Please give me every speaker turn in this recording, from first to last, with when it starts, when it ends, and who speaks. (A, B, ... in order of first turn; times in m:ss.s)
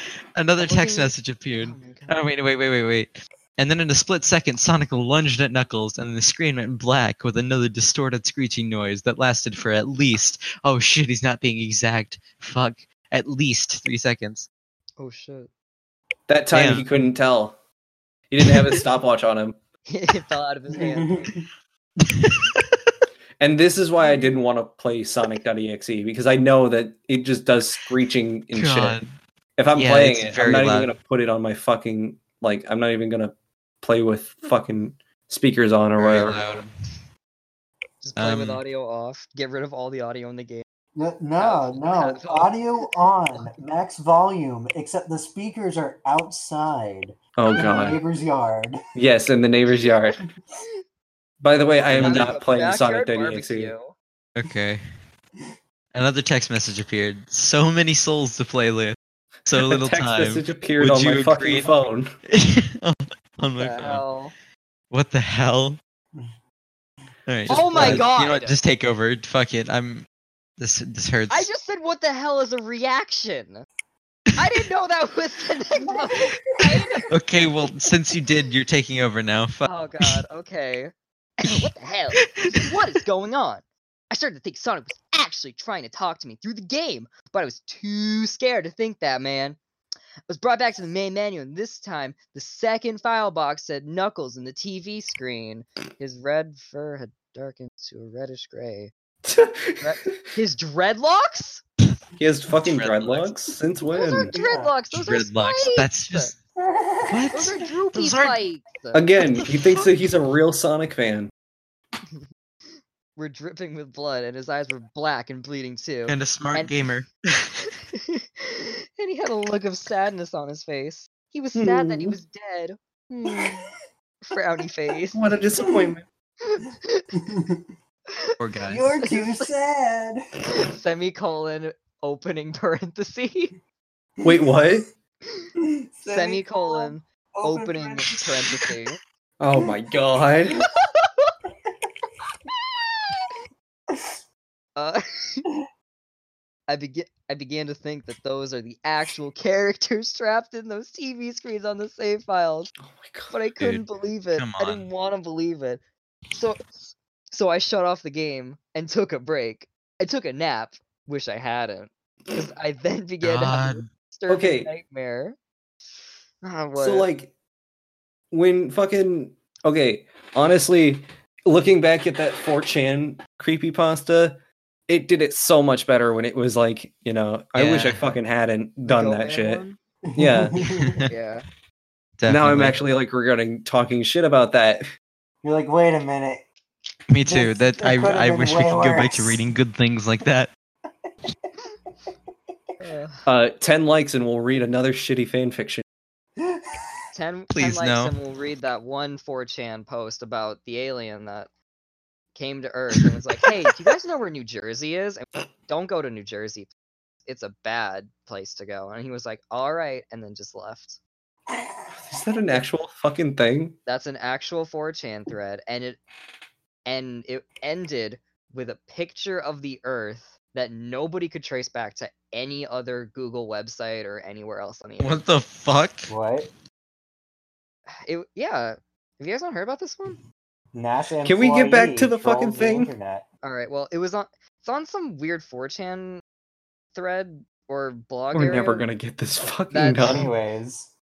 0:00.3-0:14.5 A
0:00.6-0:02.2 B
0:15.0-0:15.5 B
0:16.3-0:17.6 C
0:16.5-0:16.8 A
0:18.3-0:19.6 C
0:19.9-0:21.3 B
0:20.7-0:21.4 D
0:22.0-0:22.8 A
0:23.4-0:29.0 C
0:28.5-0:29.1 A
0:29.6-0:36.6 C
0:29.7-0:30.9 A
0:36.0-0:36.7 A
0:38.0-0:40.6 B
0:38.2-0:38.6 A
0:40.9-0:48.8 D
0:41.4-0:42.6 B
0:47.4-0:48.0 C
0:48.9-0:50.2 C
0:51.4-0:53.7 C
0:51.9-0:52.3 A
0:52.0-0:53.9 B
0:54.4-0:54.8 A
0:55.9-0:59.0 A
0:59.5-1:01.7 A
0:59.5-1:02.1 C
1:02.3-1:04.0 A
1:03.6-1:04.3 B
1:04.9-1:05.8 A
1:07.3-1:10.0 A
1:07.5-1:08.6 B
1:07.7-1:08.0 C
1:07.7-1:08.0 D
1:10.6-1:11.5 A
1:11.3-1:13.6 B
1:14.4-1:17.1 B
1:16.5-1:16.9 D
1:17.1-1:20.2 A
1:19.6-1:29.6 B
1:30.3-1:38.9 B
1:39.2-1:40.1 C
1:39.8-1:41.6 B
1:42.2-1:44.3 C
1:42.6-1:43.3 A
1:43.9-1:46.3 B
1:44.2-1:44.7 D
1:44.9-1:46.3 A
1:46.6-1:47.3 D
1:47.0-1:48.4 A
1:47.3-1:49.0 B
1:48.9-1:51.3 C
1:49.4-1:49.7 A
1:53.2-1:56.7 B
1:56.1-1:57.6 A
1:57.9-2:03.7 B
2:01.5-2:02.2 C
2:04.2-2:05.2 B
2:05.1-2:06.1 C
2:06.4-2:07.1 B
2:07.2-2:07.7 D
2:08.4-2:08.9 A
2:08.7-2:10.2 D
2:09.0-2:09.5 B
2:10.4-2:13.5 B
2:14.2-2:14.8 D
2:14.2-2:14.9 C
2:15.6-2:18.7 D
2:16.0-2:19.0 B
2:19.4-2:20.6 C
2:20.9-2:21.3 B
2:21.6-2:22.1 D
2:23.9-2:24.2 D
2:24.8-2:25.4 B
2:26.7-2:32.7 B
2:32.8-2:33.3 C
2:33.3-2:35.8 B
2:34.4-2:34.8 A
2:36.3-2:45.4 B
2:43.2-2:43.9 A
2:44.3-2:44.7 C
2:46.4-2:47.1 B
2:46.7-2:47.3 C
2:48.3-2:59.6 C
2:57.5-2:58.2 A
2:58.9-2:59.8 B
3:00.0-3:01.1 D
3:00.2-3:00.6 C
3:00.6-3:01.0 A
3:01.1-3:01.4 B
3:02.2-3:02.8 A
3:02.3-3:04.8 C
3:05.4-3:06.4 D
3:07.1-3:10.5 A
3:07.2-3:09.4 D
3:12.8-3:13.3 B
3:13.2-3:15.8 C
3:16.4-3:16.8 D
3:17.1-3:21.5 B
3:17.5-3:18.1 A
3:22.3-3:26.7 B
3:27.2-3:31.0 B
3:32.0-3:33.8 C
3:33.8-3:36.0 B
3:36.8-3:45.2 B
3:45.0-3:46.1 A
3:46.1-3:46.5 D
3:48.0-3:50.2 B
3:50.7-3:53.2 D
3:51.2-3:52.9 C
3:53.4-3:56.2 B
3:56.9-3:58.8 B
3:58.3-4:00.3 C
3:59.7-4:00.3 B
4:00.0-4:00.9 D